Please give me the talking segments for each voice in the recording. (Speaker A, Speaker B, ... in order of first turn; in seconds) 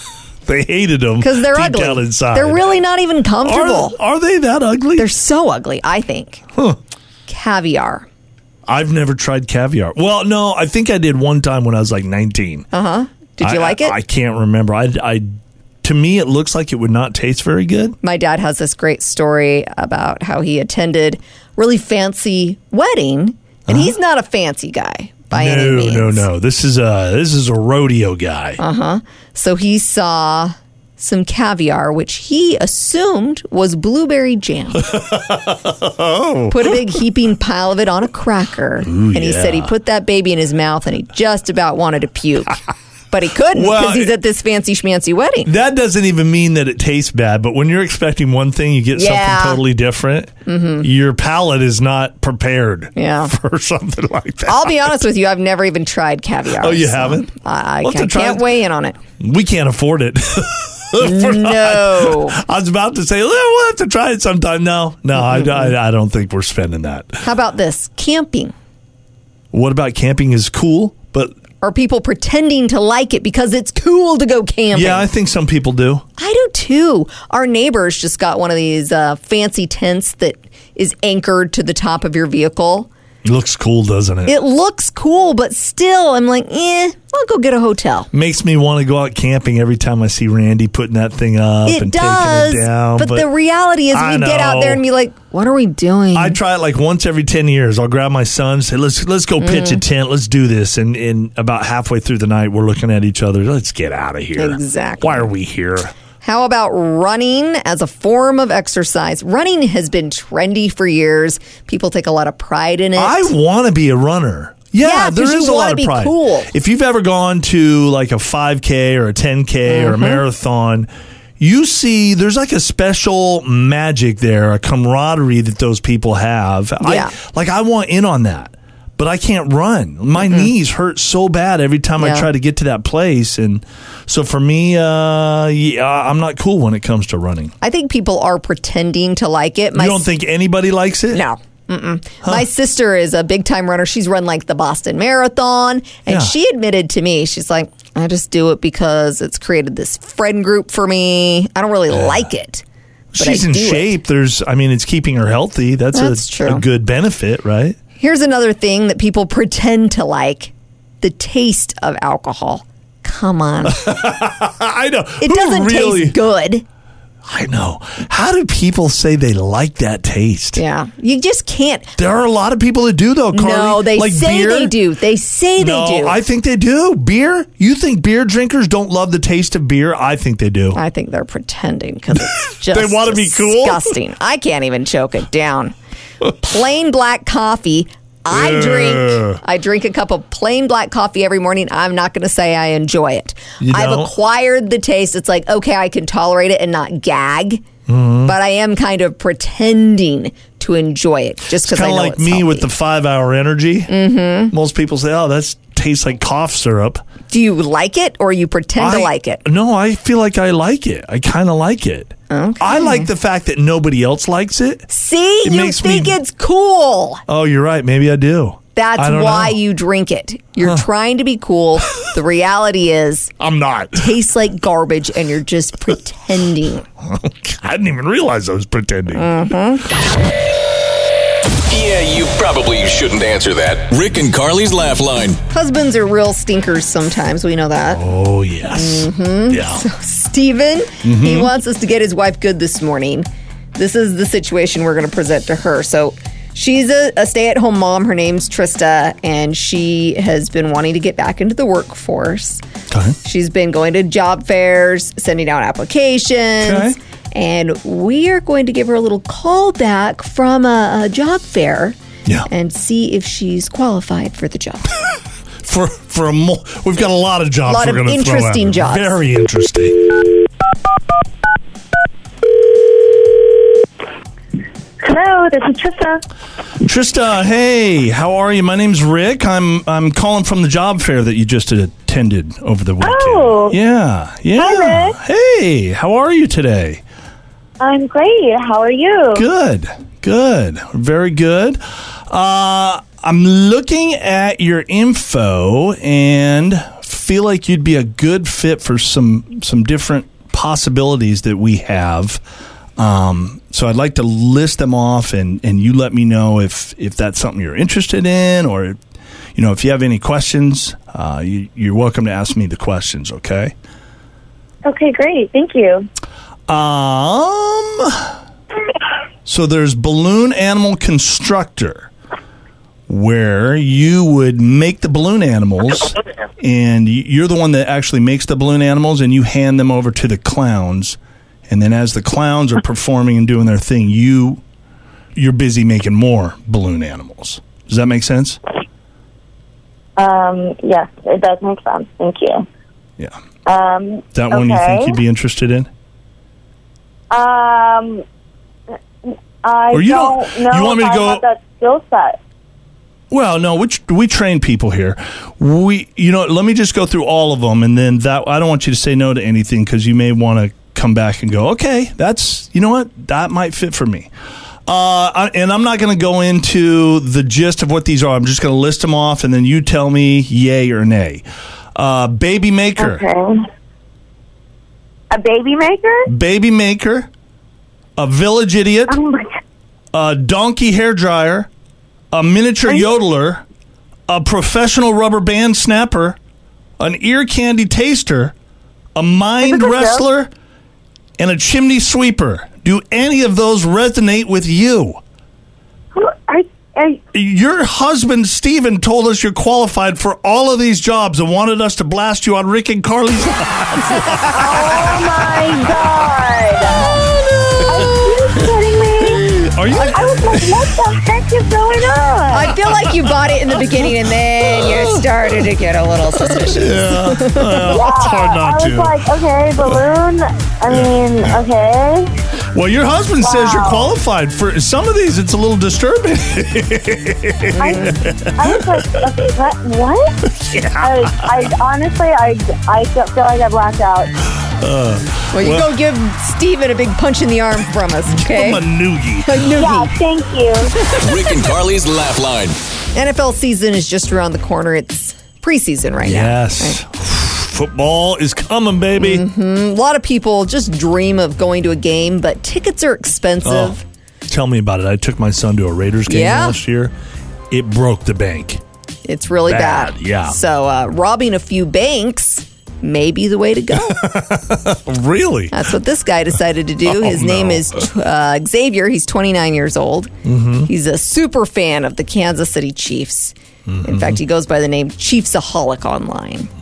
Speaker A: 0.5-2.7, 3.4-5.1, 8.7-12.7, 13.4-18.0, 23.7-23.9, 25.3-28.6, 34.8-37.0, 38.9-39.7, 43.5-44.1, 45.5-54.9, 56.6-57.3, 57.8-58.5, 59.2-67.2, 69.5-71.4, 74.7-76.0, 83.2-84.3, 88.1-93.3, 93.9-94.8, 96.1-105.9, 113.0-137.5, 139.8-141.2, 146.1-146.3, 151.9-152.3, 153.1-157.8, 163.7-166.2, 167.2-170.6, 172.0-174.8, 175.6-180.8, 182.2-184.0, 188.3-189.4, 193.6-194.1, 197.9-198.3, 201.5-203.9, 204.5-207.0, 208.8-214.9, 215.4-216.2, 217.3-219.6, 223.4-224.1, 227.0-229.3, 237.9-239.8, 241.0-241.5, 252.9-253.2, 256.6-257.0, 265.6-270.1, 276.8-287.0, 289.3-302.4, 303.0-309.0, 309.6-313.8, 316.7-318.3, 319.4-322.1, 323.1-334.6, 335.4-338.6, 344.3-345.9, 349.9-351.4, 353.3-364.3, 364.9-373.2, 376.3-377.3, 378.2-379.2, 380.1-381.7, 382.3-383.6, 384.3-386.4, 387.0-388.5, 389.1-390.5, 391.4-395.2, 397.3-410.9, 412.7-415.3, 416.4-419.2, 420.9-421.6, 422.7-429.1, 430.5-431.7, 434.8-435.9, 438.3-439.7, 446.2-449.4, 453.6-457.1, 457.7-458.8, 459.7-460.6, 463.9-465.8, 467.1-468.1, 470.4-470.9, 473.9-474.4
Speaker B: 1.2-4.0, 5.0-6.5, 7.3-8.1, 12.7-14.0, 18.0-26.3, 28.6-35.0, 36.5-42.6, 43.1-45.5, 49.0-49.6, 50.5-50.9, 53.0-53.3, 54.5-59.0, 61.0-62.4, 65.2-65.7, 67.2-68.5, 71.6-75.1, 76.2-82.9, 84.3-88.1, 91.7-96.4, 99.4-99.8, 104.4-105.3, 106.2-113.3, 114.8-116.5, 119.7-120.2, 126.8-127.2, 130.2-130.5, 132.0-132.3, 137.6-140.1, 141.1-152.6, 153.2-153.9, 155.9-156.7, 158.0-163.9, 165.2-166.7, 170.6-171.9, 173.3-176.2, 180.8-185.7, 186.4-197.6, 198.2-202.7, 203.9-204.5, 207.3-209.4, 212.3-213.1, 214.9-217.2, 218.8-223.3, 223.9-226.9, 229.1-229.9, 235.5-238.0, 238.7-252.6, 253.2-262.0, 262.5-264.9, 267.7-269.2, 412.5-417.9, 435.5-438.9, 439.4-440.1, 443.1-447.0, 449.2-454.0, 456.3-456.8, 459.3-464.3, 465.7-470.3, 470.8-476.7
Speaker C: 231.7-235.4, 441.1-442.8
Speaker D: 275.0-276.2, 283.0-283.8, 284.6-285.2, 287.8-289.5, 314.8-316.1, 340.2-342.6, 343.7-345.2, 347.3-348.2, 349.3-352.4, 373.0-373.7, 375.3-376.3, 379.1-379.6, 382.9-383.1, 389.6-390.3, 396.1-397.2, 404.5-412.8, 417.9-422.3, 423.4-424.1, 427.8-430.4, 431.0-434.3, 439.7-440.9